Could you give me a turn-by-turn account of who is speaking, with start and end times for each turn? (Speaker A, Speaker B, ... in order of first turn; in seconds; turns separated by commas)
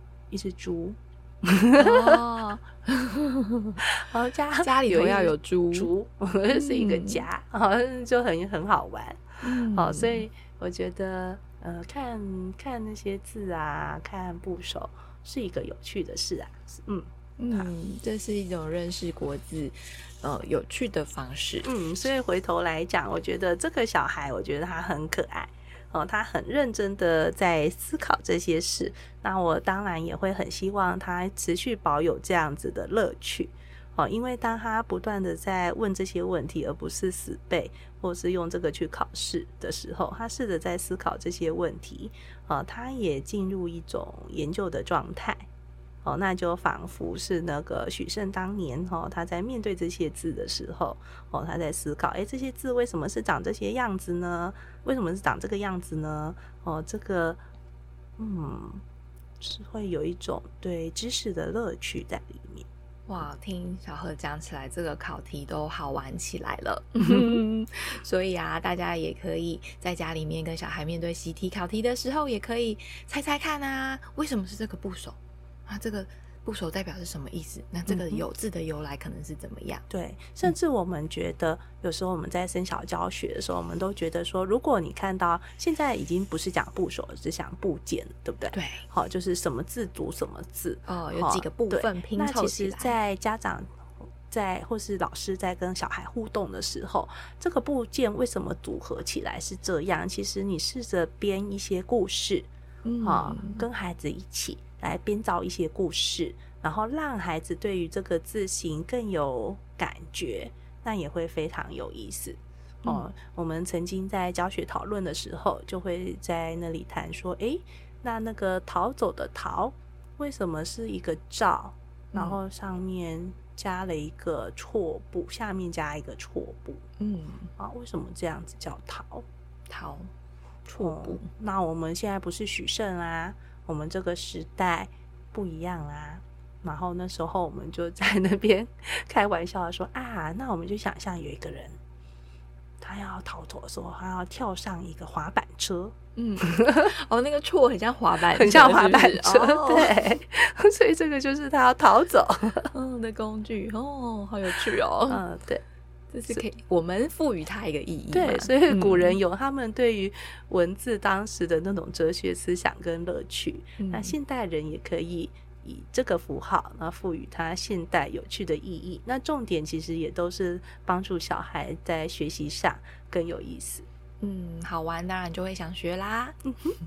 Speaker A: 0.3-2.2, Speaker B: 1.7-3.8, Speaker A: 3.8-17.7, Speaker B: 4.6-5.9, Speaker B: 6.5-7.2, Speaker B: 9.4-10.2, Speaker B: 17.4-21.7, Speaker A: 21.6-45.5, Speaker A: 46.0-57.4, Speaker A: 58.2-58.8, Speaker A: 59.4-62.7, Speaker B: 63.1-79.8, Speaker A: 67.0-67.4, Speaker A: 77.9-78.2, Speaker A: 79.9-93.7, Speaker B: 88.5-88.8, Speaker B: 90.8-92.9, Speaker A: 94.3-102.5, Speaker B: 102.8-103.6, Speaker A: 103.0-126.8, Speaker B: 122.1-122.4, Speaker B: 127.0-127.5, Speaker A: 127.6-129.2, Speaker B: 129.7-130.1, Speaker B: 130.7-131.3, Speaker A: 130.8-141.8, Speaker A: 142.8-145.9, Speaker B: 146.2-149.9, Speaker A: 146.5-146.9, Speaker A: 148.3-152.7, Speaker B: 152.7-155.2, Speaker A: 155.1-155.6, Speaker B: 156.1-159.2, Speaker A: 158.1-173.8, Speaker B: 163.8-164.1, Speaker B: 174.2-176.4, Speaker A: 176.5-176.7